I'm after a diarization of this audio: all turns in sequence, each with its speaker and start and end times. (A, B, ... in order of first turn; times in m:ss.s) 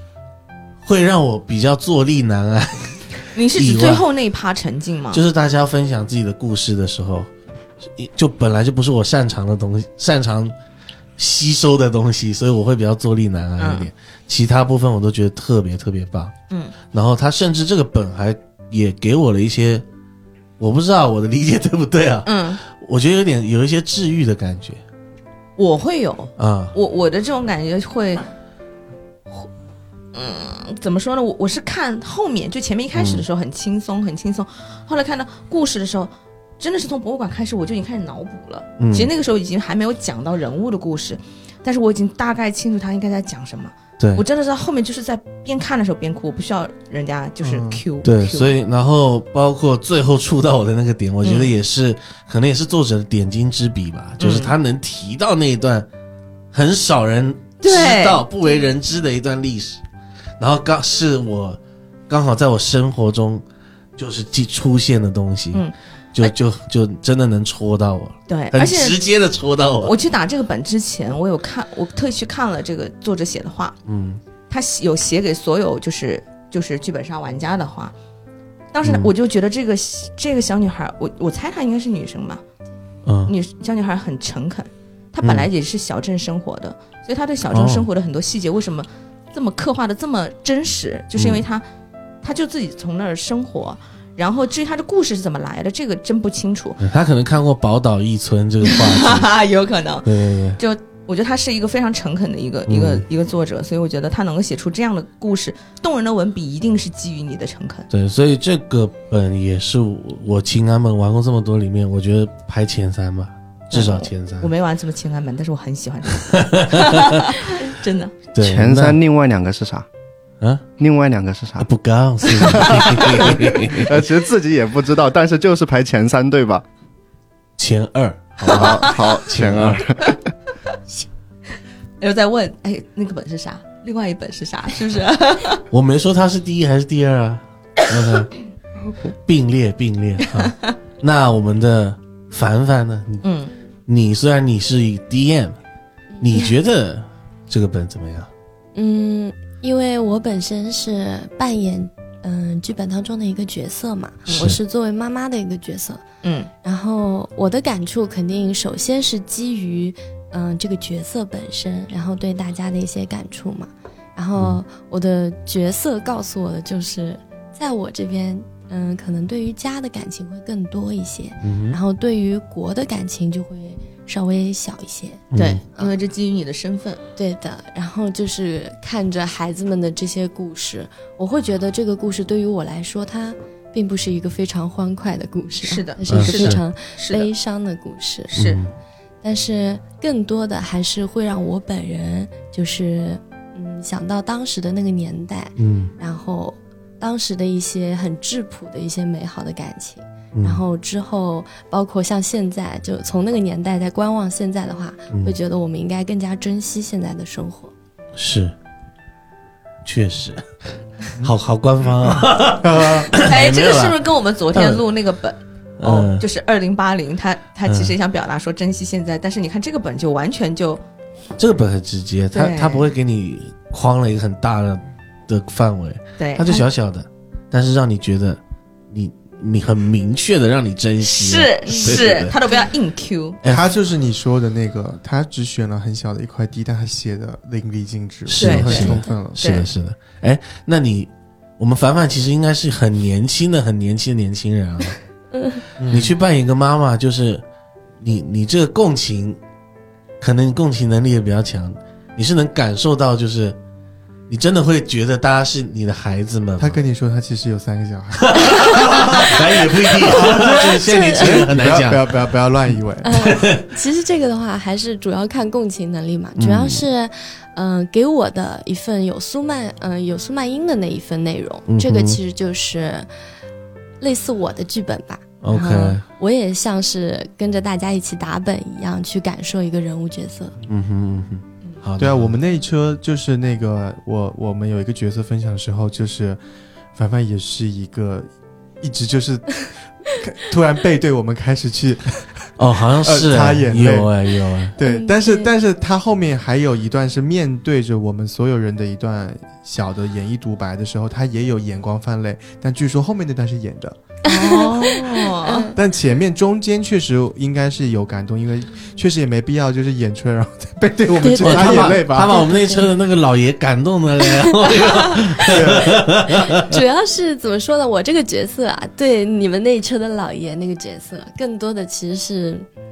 0:00.8-0:04.0 A
0:03.3-0:05.2 B
0:05.1-0:07.3 A
0:07.8-0:10.5 A
0:11.2-0:16.4 A
0:13.6-0:13.9 B
0:16.5-0:16.7 B
0:16.9-0:19.8 A
0:20.6-0:24.8 A
0:22.2-0:22.6 B
0:25.6-0:28.2 B
0:26.4-0:26.7 A
0:30.1-0:48.5 B
0:32.9-0:33.2 A
0:38.8-0:39.1 A
0:44.0-0:44.2 A
0:47.4-0:47.8 C
0:48.0-0:55.9 A
0:51.2-0:51.5 B
0:54.2-0:54.5 B
0:56.5-0:59.8 A
0:57.6-0:58.2 B
1:00.4-1:03.4 A
1:04.0-1:09.9 A
1:05.5-1:06.3 B
1:08.3-1:09.0 B
1:09.8-1:13.8 B
1:13.8-1:14.2 A
1:14.5-1:17.9 B
1:18.7-1:22.4 B
1:18.8-1:19.1 A
1:23.0-1:23.3 A
1:23.2-1:31.6 B
1:25.2-1:25.5 A
1:27.5-1:27.9 A
1:31.2-1:31.4 A
1:32.2-1:36.8 B
1:36.8-1:39.4 A
1:38.7-1:47.9 B
1:40.0-1:40.6 A
1:42.7-1:43.0 A
1:47.9-1:54.5 A
1:53.7-1:58.3 B
1:56.3-1:57.2 A
1:58.3-1:59.0 A
1:58.4-1:59.8 D
2:00.8-2:01.7 D
2:01.6-2:04.0 A
2:02.3-2:06.6 D
2:07.6-2:09.9 A
2:08.5-2:10.2 D
2:08.5-2:09.0 B
2:12.0-2:15.6 B
2:15.7-2:18.3 A
2:19.2-2:23.2 A
2:20.4-2:20.7 B
2:23.2-2:23.5 B
2:23.9-2:25.6 A
2:26.2-2:26.5 E
2:26.2-2:28.3 A
2:28.7-2:36.0 E
2:34.3-2:34.6 B
2:34.3-2:34.6 A
2:36.2-2:36.5 B
2:36.6-2:55.2 E
2:51.4-2:51.8 A
2:55.3-2:55.6 A
2:55.4-2:57.0 B
2:57.2-3:08.4 E
3:05.6-3:07.3 B
3:06.1-3:06.6 A
3:08.3-3:08.6 B
3:08.3-3:08.7 A
3:09.2-3:27.7 E
3:15.6-3:15.9 A
3:20.3-3:20.6 A
3:28.2-3:28.5 A
3:29.8-3:30.5 A
3:31.2-3:34.0 A
3:32.1-3:33.1 C
3:33.1-3:40.8 B
3:34.5-3:34.8 A
3:35.8-3:36.2 A
3:37.6-3:37.9 A
3:41.4-3:48.4 A
3:42.3-3:42.9 B
3:46.2-3:46.7 B
3:48.9-3:52.4 A
3:51.0-3:53.4 B
3:51.7-3:51.9 E
3:53.4-3:59.5 C
3:58.3-4:05.0 A
3:58.4-3:59.7 B
4:05.3-4:05.6 E
4:05.8-4:06.2 C
4:05.8-4:07.4 A
4:08.0-4:09.4 A
4:10.2-4:13.6 A
4:14.3-4:16.8 A
4:16.6-4:19.4 C
4:18.2-4:22.2 A
4:20.0-4:23.3 C
4:20.8-4:21.4 E
4:23.0-4:33.1 E
4:23.2-4:23.6 A
4:26.4-4:26.8 A
4:31.7-4:32.2 A
4:34.0-4:40.5 E
4:35.4-4:36.0 A
4:40.7-4:42.3 A
4:42.0-4:46.4 C
4:46.9-4:48.3 C
4:48.8-4:52.3 C
4:52.6-4:54.7 A
4:53.0-4:54.1 C
4:54.6-5:04.0 C
4:54.8-4:55.5 E
5:04.2-5:05.7 B
5:04.2-5:05.7 E
5:05.7-5:12.4 C
5:11.2-5:12.9 E
5:11.4-5:16.6 A
5:14.2-5:15.6 E
5:15.5-5:16.0 C
5:16.3-5:22.6 E